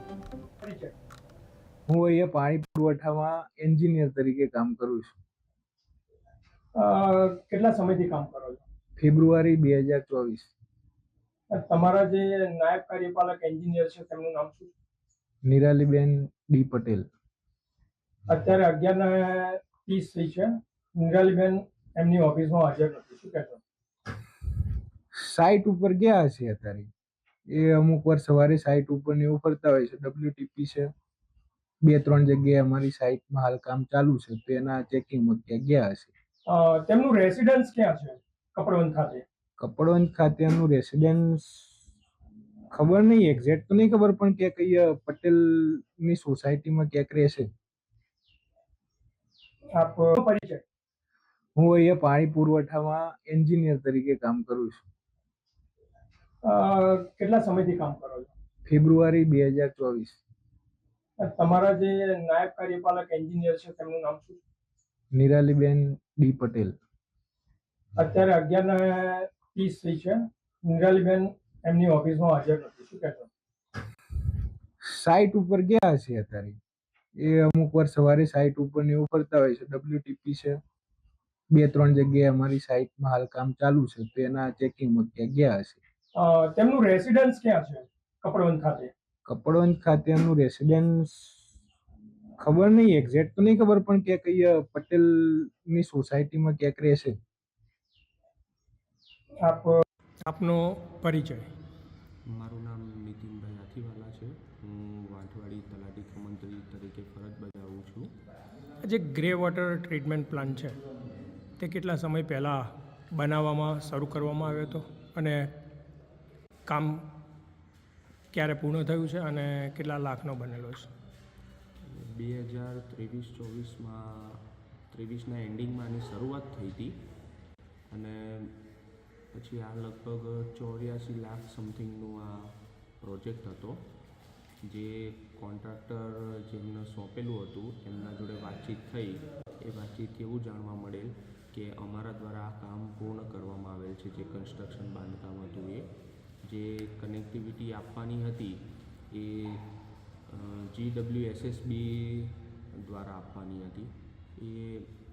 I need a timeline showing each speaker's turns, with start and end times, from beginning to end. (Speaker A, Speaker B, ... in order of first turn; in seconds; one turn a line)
Speaker A: 0.6-0.9
Speaker B: 1.9-5.1
Speaker A: 6.8-8.6
Speaker B: 9.0-10.5
Speaker A: 11.5-14.7
Speaker B: 15.4-17.0
Speaker A: 18.3-23.6
Speaker B: 25.2-26.9
Speaker B: 27.5-30.9
Speaker B: 31.8-36.1
Speaker A: 36.5-39.2
Speaker B: 39.6-41.7
Speaker B: 42.7-47.5
Speaker A: 49.7-50.6
Speaker B: 51.6-54.8
Speaker A: 56.4-58.3
Speaker B: 58.6-60.2
Speaker A: 61.2-64.4
Speaker B: 65.1-66.7
Speaker A: 68.0-73.3
Speaker B: 74.8-76.6
Speaker B: 77.2-80.6
Speaker B: 81.5-85.8
Speaker A: 86.1-88.9
Speaker B: 89.3-91.4
Speaker B: 92.4-97.1
Speaker A: 99.4-99.8
Speaker C: 100.2-101.5
Speaker D: 102.3-108.1
Speaker C: 108.8-110.8
Speaker C: 111.6-115.5
Speaker C: 116.7-117.0
Speaker C: 118.3-120.9
Speaker D: 121.8-127.0
Speaker D: 127.9-128.6
Speaker D: 129.3-133.8
Speaker D: 134.6-145.9
Speaker D: 146.4-149.7
Speaker D: 150.3-154.9